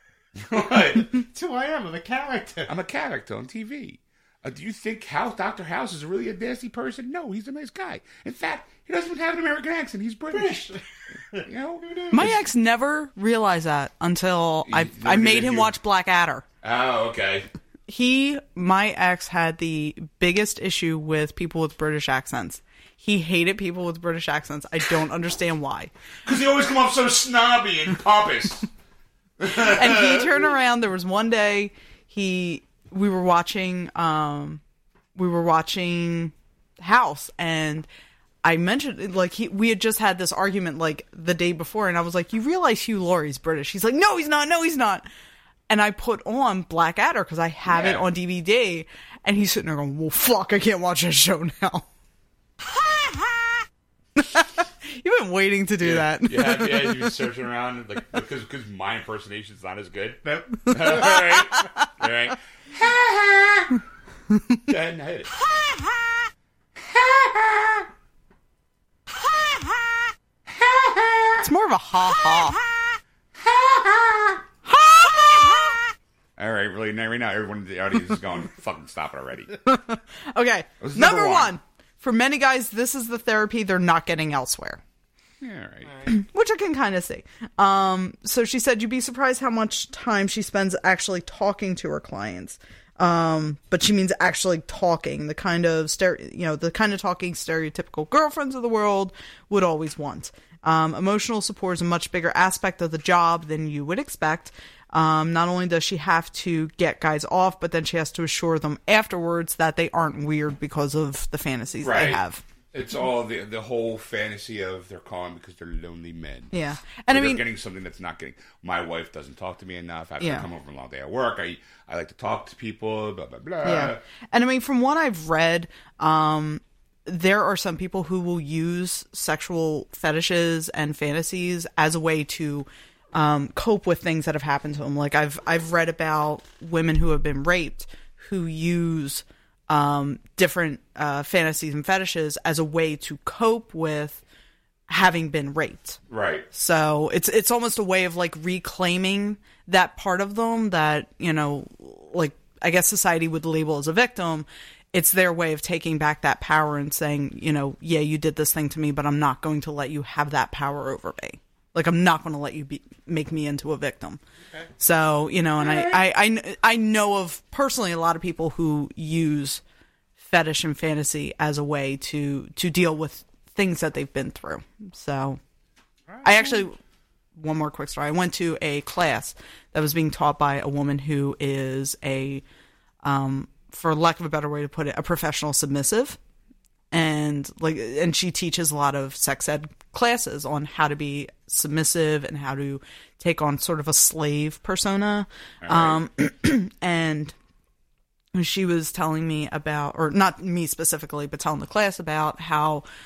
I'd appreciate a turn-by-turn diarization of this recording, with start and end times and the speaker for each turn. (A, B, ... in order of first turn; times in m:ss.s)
0:00.3-0:01.2 A
0:01.0-0:02.7 B
0:02.7-0:10.8 A
0:10.3-0:12.1 B
0:11.3-0:12.4 A
0:12.1-0:16.4 C
0:14.6-0:15.7 A
0:16.6-0:17.5 A
0:17.9-0:25.9 C
0:26.2-0:28.7 A
0:29.4-0:30.5 A
0:29.5-0:34.6 C
0:35.1-0:37.9 C
0:38.4-0:45.0 C
0:45.7-0:51.8 C
0:47.7-0:48.0 A
0:52.7-0:53.2 C
0:54.2-0:57.1 C
0:55.8-1:03.8 A
1:00.2-1:01.2 B
1:04.7-1:05.3 A
1:06.8-1:07.9 A
1:10.4-1:11.5 A
1:11.4-1:12.6 C
1:13.3-1:14.4 A
1:14.6-1:15.8 C
1:16.4-1:19.5 A
1:19.6-1:24.8 C
1:20.8-1:21.5 A
1:25.4-1:26.0 A
1:25.8-1:26.2 B
1:26.1-1:52.4 C
1:51.8-2:04.0 A
1:56.5-1:57.4 C
2:00.2-2:00.5 C
2:03.6-2:24.2 C
2:24.9-2:26.0 C
2:26.1-2:26.4 A
2:26.5-2:44.2 C
2:44.8-2:49.6 C
2:45.6-2:46.0 A
2:50.2-2:55.4 C
2:56.1-2:56.4 B
2:56.2-2:56.8 C
2:57.4-3:02.4 C
3:03.0-3:06.2 C
3:06.9-3:17.3 C
3:15.6-3:16.1 A
3:18.3-3:22.8 C